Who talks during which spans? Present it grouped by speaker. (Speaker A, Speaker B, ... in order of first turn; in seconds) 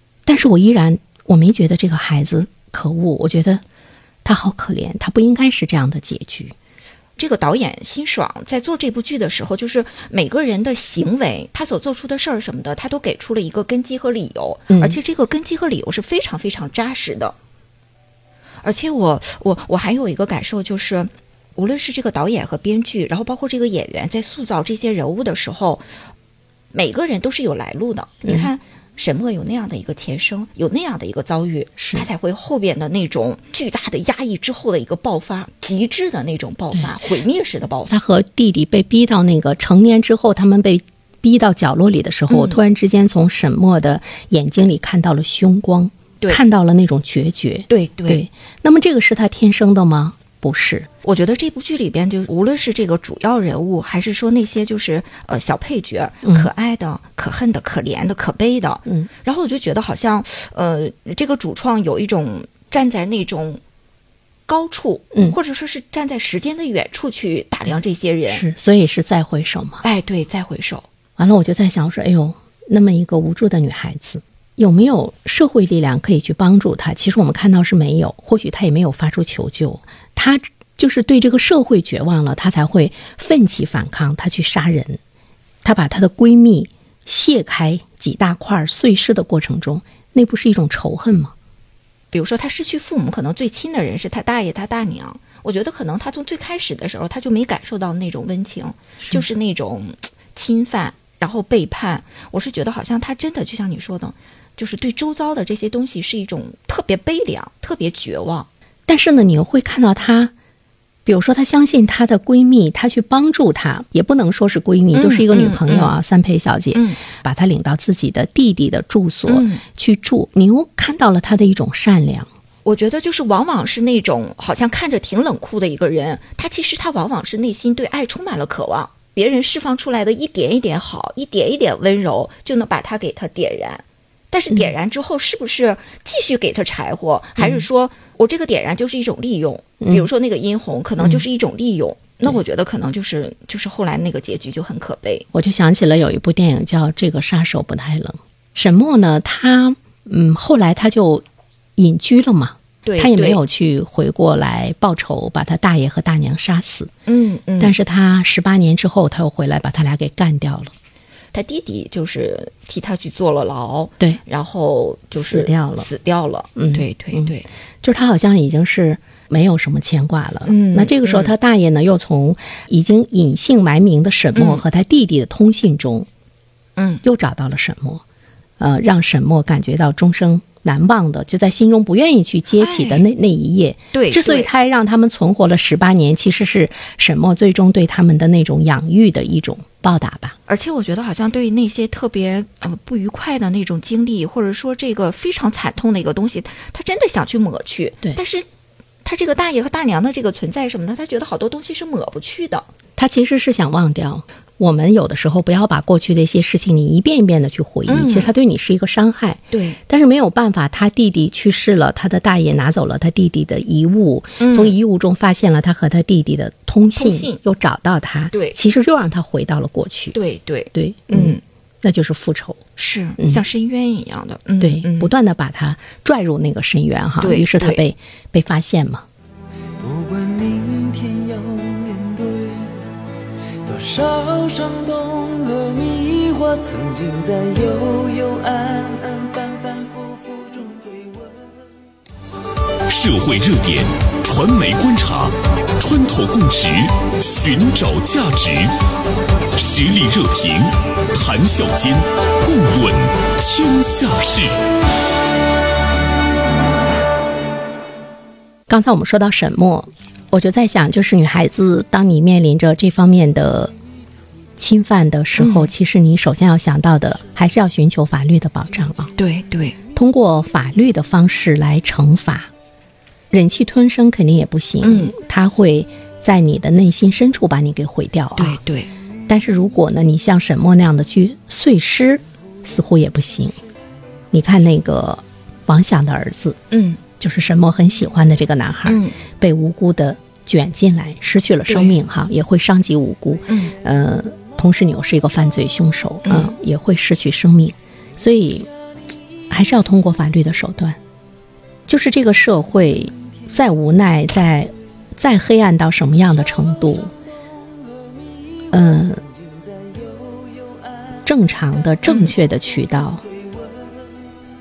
Speaker A: 0.2-3.6, 4.2-6.5, 14.7-15.0, 31.8-32.1, 37.9-50.9, 56.2-56.5, 68.3-69.8, 71.2-85.0, 85.6-91.3, 108.9-110.3, 111.0-122.3, 137.4-137.6, 139.8-140.1, 145.3-151.2, 151.8-156.9, 157.6-160.7, 165.2-165.9, 166.6-167.3, 167.8-176.1, 177.0-178.0, 178.6-190.3, 203.0-220.2, 220.7-222.6, 224.6-229.1, 258.7-263.7, 264.6-269.1, 269.9-272.5, 273.3-278.6, 279.3-283.6, 284.3-286.6, 287.2-298.7, 299.5-301.0, 301.9-307.1, 308.7-309.2, 311.2-313.2
Speaker B: 7.2-17.4, 18.6-25.8, 26.7-37.9, 42.3-42.6, 47.7-48.2, 51.0-63.6, 64.5-68.4, 69.8-70.9, 92.1-108.5, 114.9-116.0, 119.3-119.6, 122.6-145.2, 152.8-153.4, 157.1-157.7, 161.3-167.4, 170.4-171.3, 174.3-174.6, 176.8-177.0, 182.6-183.0, 183.9-184.5, 190.5-198.4, 199.0-202.7, 207.9-208.3, 209.5-209.8, 214.4-214.8, 216.9-217.4, 220.1-221.4, 222.8-225.1, 227.2-227.8, 265.4-265.7, 269.2-269.8, 274.8-275.1, 278.4-278.9, 286.7-287.0, 288.9-289.1, 291.7-291.9, 293.5-293.7, 296.2-296.5, 312.1-312.3
Speaker C: 229.8-232.7, 233.6-241.5
Speaker D: 242.9-248.7, 249.5-254.5